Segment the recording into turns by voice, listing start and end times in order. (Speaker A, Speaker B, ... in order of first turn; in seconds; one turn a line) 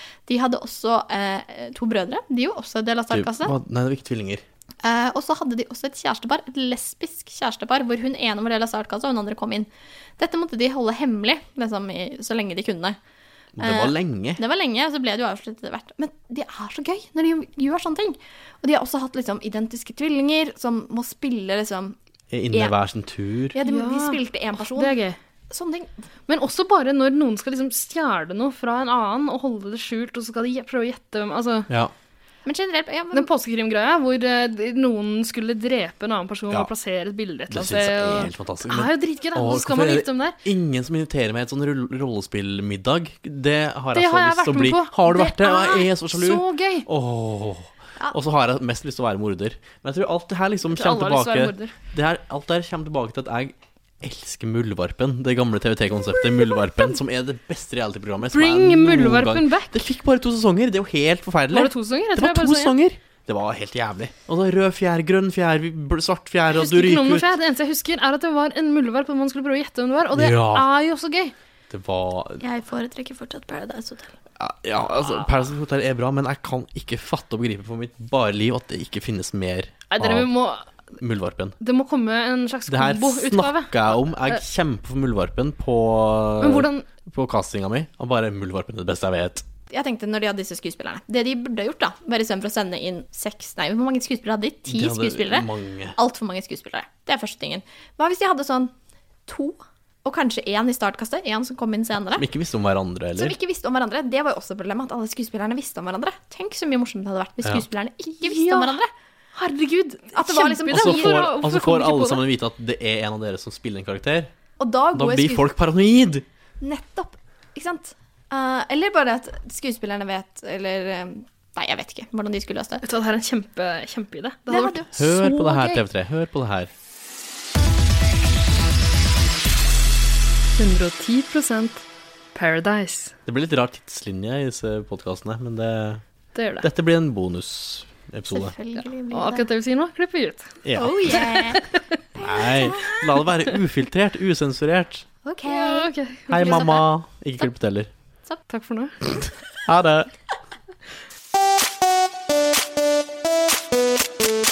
Speaker A: 0.3-3.5
Speaker B: 3.1-4.4
Speaker A: 4.8-13.0
Speaker B: 13.6-14.4
Speaker A: 13.6-22.0
Speaker B: 22.3-23.5
Speaker A: 23.5-24.9
Speaker C: 23.6-25.2
Speaker A: 25.5-25.9
Speaker C: 26.3-31.7
Speaker B: 31.7-31.9
Speaker A: 32.4-33.3
Speaker C: 33.1-40.4
Speaker B: 37.5-67.3
Speaker C: 43.9-46.9
Speaker C: 50.7-51.7
Speaker C: 58.2-59.7
Speaker C: 61.5-62.7
Speaker C: 66.5-71.3
Speaker B: 70.1-70.7
Speaker B: 71.7-72.4
Speaker A: 72.4-74.1
Speaker B: 74.4-80.3
Speaker C: 79.9-80.7
Speaker B: 81.0-81.5
Speaker C: 81.6-84.4
Speaker B: 82.7-89.4
Speaker C: 86.4-86.8
Speaker A: 89.7-98.7
Speaker B: 94.7-96.0
Speaker A: 99.3-102.2
Speaker B: 102.2-103.3
Speaker A: 103.1-108.9
Speaker C: 108.2-108.8
Speaker C: 109.3-112.2
Speaker A: 110.1-111.3
Speaker B: 110.7-114.3
Speaker A: 114.6-115.5
Speaker B: 114.9-116.2
Speaker A: 116.6-122.8
Speaker C: 122.8-125.8
Speaker A: 124.5-125.1
Speaker B: 124.9-126.7
Speaker C: 130.5-133.1
Speaker B: 133.2-136.0
Speaker C: 136.3-136.7
Speaker B: 136.6-138.5
Speaker A: 138.3-139.4
Speaker C: 139.1-140.6
Speaker B: 140.6-141.0
Speaker A: 140.7-143.2
Speaker C: 141.1-141.8
Speaker B: 142.2-145.1
Speaker C: 145.2-146.8
Speaker A: 145.4-146.9
Speaker B: 146.3-147.9
Speaker C: 148.5-149.0
Speaker B: 149.6-150.1